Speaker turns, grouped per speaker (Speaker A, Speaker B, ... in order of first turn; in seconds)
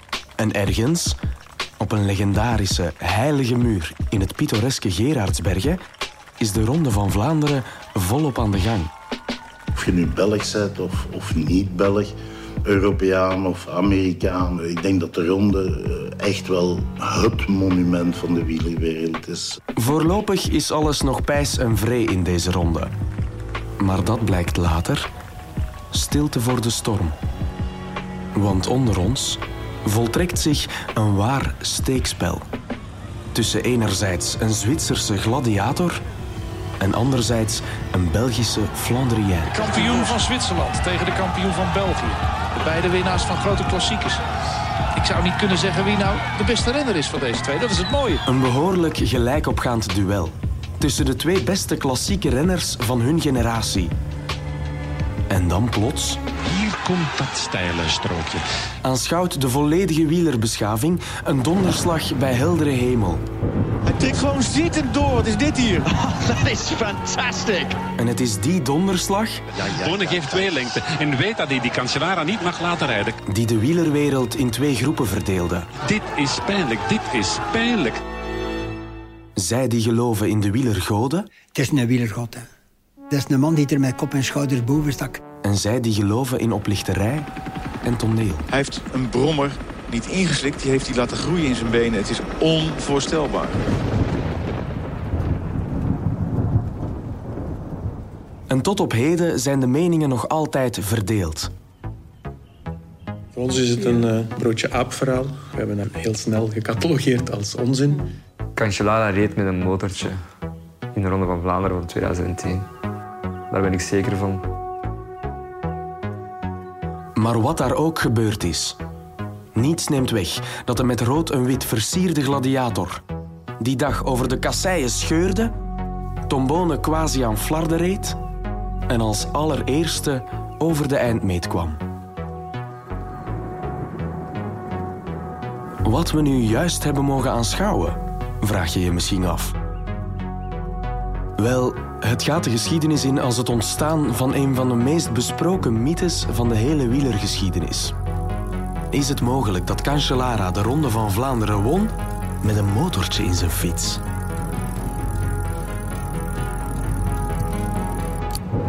Speaker A: 0.4-1.2, 1.8-5.8, 6.4-8.9, 19.8-22.9, 23.8-25.1, 25.9-27.2, 28.4-32.5, 33.3-36.0, 36.8-40.1, 48.3-53.9, 55.3-56.2, 58.8-63.2, 68.0-69.5, 73.3-75.7, 79.4-81.3, 85.4-87.3, 87.8-88.5, 98.5-101.5, 117.2-118.8, 119.5-123.0, 123.6-125.5, 126.3-128.2, 128.9-131.8, 135.8-139.6, 141.4-147.9, 148.9-154.0
Speaker B: 9.8-12.1, 12.7-19.6
Speaker C: 39.5-44.2, 45.0-48.2
Speaker D: 56.5-58.4, 69.8-73.2, 75.8-78.0
Speaker E: 63.9-67.8, 69.6-70.6, 88.5-93.6
Speaker F: 81.5-82.5, 83.1-85.2
Speaker G: 103.3-108.1
Speaker H: 108.6-110.2, 110.9-112.7, 113.5-114.4